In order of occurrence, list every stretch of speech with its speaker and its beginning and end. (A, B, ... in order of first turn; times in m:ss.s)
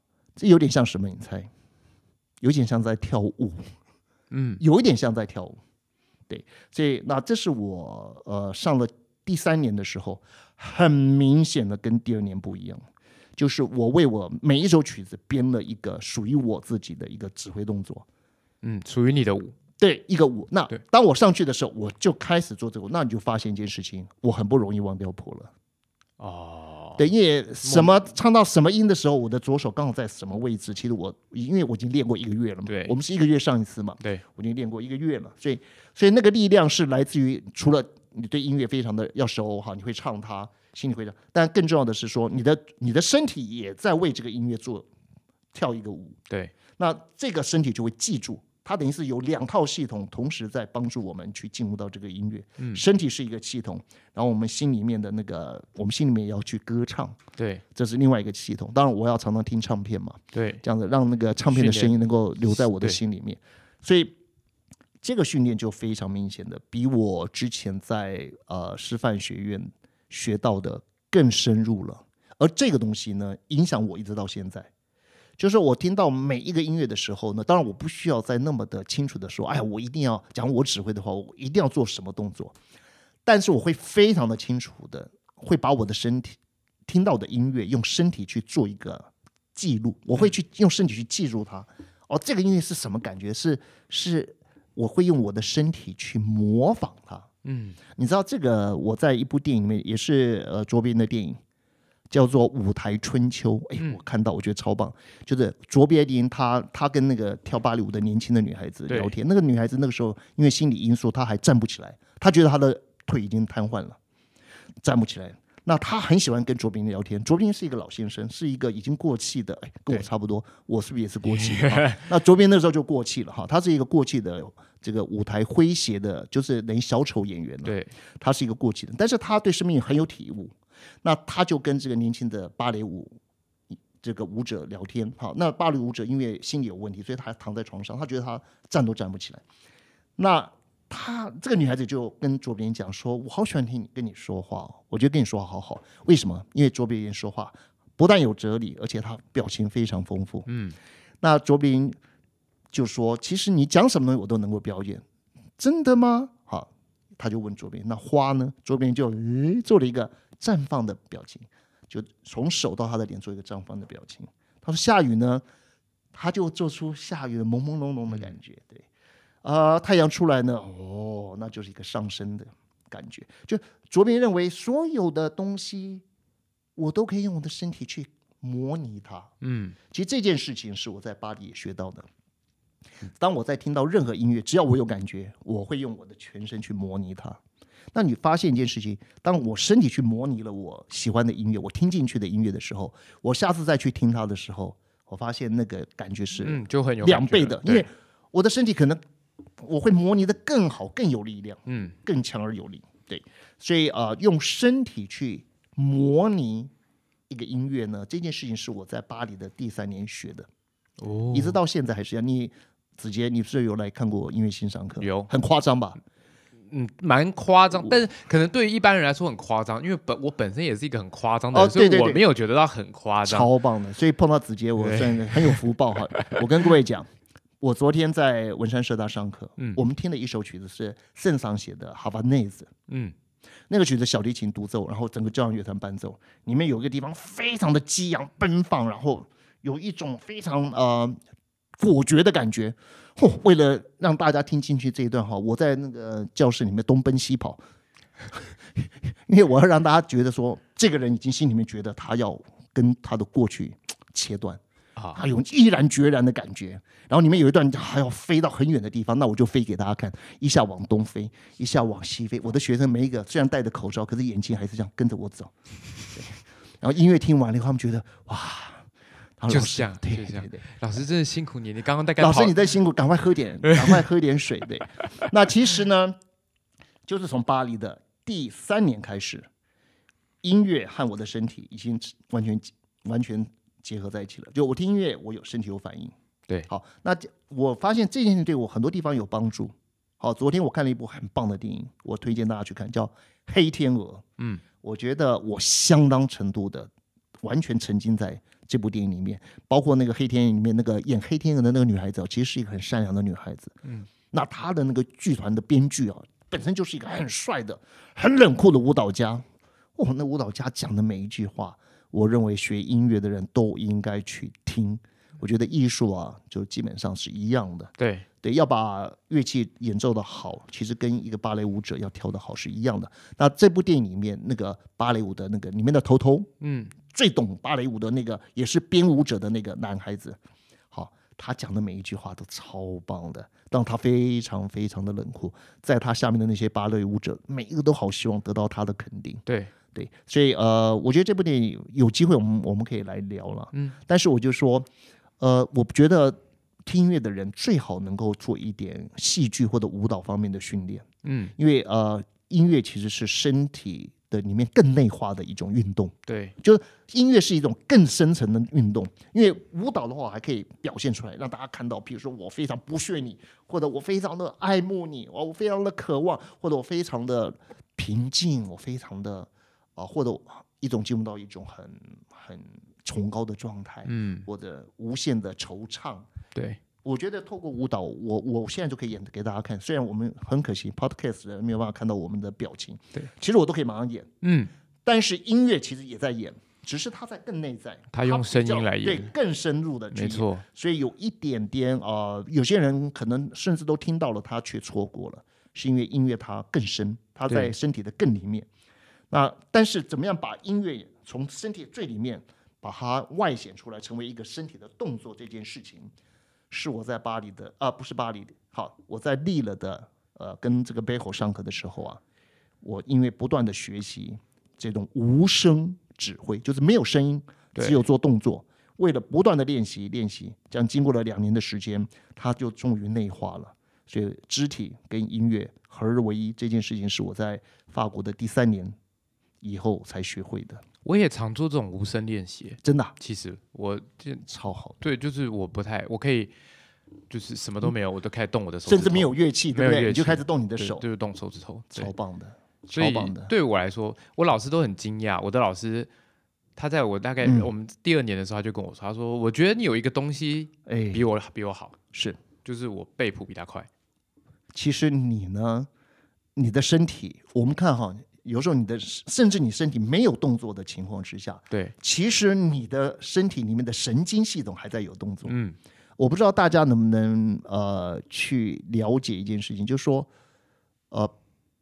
0:00.4-0:01.5 A
0:02.4-0:03.7 A
0:04.3-0:04.6 B
0:04.6-0:05.6 A
0:06.3-0:12.8 A
0:13.4-0:18.0 A
0:18.6-0:19.6 B
0:19.8-0:25.5 A
0:26.2-0:27.1 B
0:27.0-0:44.9 A
0:27.6-0:28.1 B
0:32.6-0:33.0 B
0:45.5-0:46.2 A
0:46.8-0:57.2 A
0:52.6-0:52.8 B
0:57.4-0:57.6 B
0:57.7-1:04.1 A
1:00.3-1:00.6 B
1:01.4-1:01.9 B
1:05.0-1:14.7 A
1:15.4-1:22.5 A
1:23.2-1:37.3 A
1:37.4-1:37.8 B
1:37.9-1:41.4 A
1:42.1-1:54.0 A
1:48.9-1:49.2 B
1:54.8-2:13.1 A
2:01.2-2:02.1 B
2:07.6-2:07.9 B
2:14.0-2:19.4 A
2:20.2-2:30.5 A
2:30.4-2:30.8 B
2:31.2-2:32.0 A
2:32.7-2:35.0 A
2:35.6-2:45.4 A
2:46.1-2:48.8 A
2:49.4-2:56.0 A
2:56.8-2:59.3 A
2:59.4-2:59.8 B
2:59.9-3:02.1 A
3:03.2-3:07.4 A
3:07.9-3:19.0 A
3:16.4-3:17.9 B
3:19.6-3:26.7 A
3:21.7-3:21.9 B
3:27.3-3:30.5 A
3:31.0-3:31.6 B
3:31.3-3:36.0 A
3:35.0-3:35.3 B
3:36.7-3:43.5 B
3:41.5-3:42.2 A
3:43.2-3:47.1 A
3:44.8-3:45.6 B
3:47.6-3:52.7 A
3:52.9-3:53.1 B
3:53.7-4:01.2 A
4:01.8-4:07.6 A
4:08.3-4:14.6 A
4:15.1-4:25.5 A
4:26.1-4:28.8 A
4:29.4-4:30.6 A
4:29.5-4:32.6 B
4:32.2-4:36.2 A
4:33.6-4:34.0 B
4:37.0-4:39.5 A
4:40.4-4:46.1 A
4:46.7-4:54.2 A
4:54.8-4:56.9 A
4:57.4-5:03.8 A
5:04.3-5:26.5 A
5:18.0-5:18.2 B
5:26.6-5:26.9 B
5:27.0-5:30.4 A
5:30.9-5:39.4 A
5:39.4-5:39.7 B
5:39.9-5:44.9 A
5:45.4-5:51.0 A
5:51.2-5:51.5 B
5:51.6-6:16.3 A
5:56.2-5:56.5 B
6:14.0-6:14.5 B
6:17.0-6:24.3 A
6:24.4-6:24.7 B
6:25.0-6:38.7 A
6:28.1-6:29.3 B
6:30.1-6:30.6 B
6:39.3-6:46.1 A
6:46.7-6:52.2 A
6:52.8-7:09.0 A
6:57.7-6:58.0 B
7:09.6-7:10.8 A
7:11.0-7:14.4 B
7:12.8-7:13.1 A
7:14.4-7:15.0 A
7:15.0-7:16.5 B
7:17.3-7:22.1 B
7:18.9-7:21.0 A
7:21.9-7:23.5 A
7:22.9-7:26.1 B
7:26.8-7:32.0 B
7:27.4-7:27.7 A
7:30.8-7:31.2 A
7:32.1-7:32.4 A
7:32.6-7:33.9 B
7:34.7-7:35.9 A
7:36.6-7:45.5 A
7:45.4-7:45.8 B
7:46.2-7:50.3 A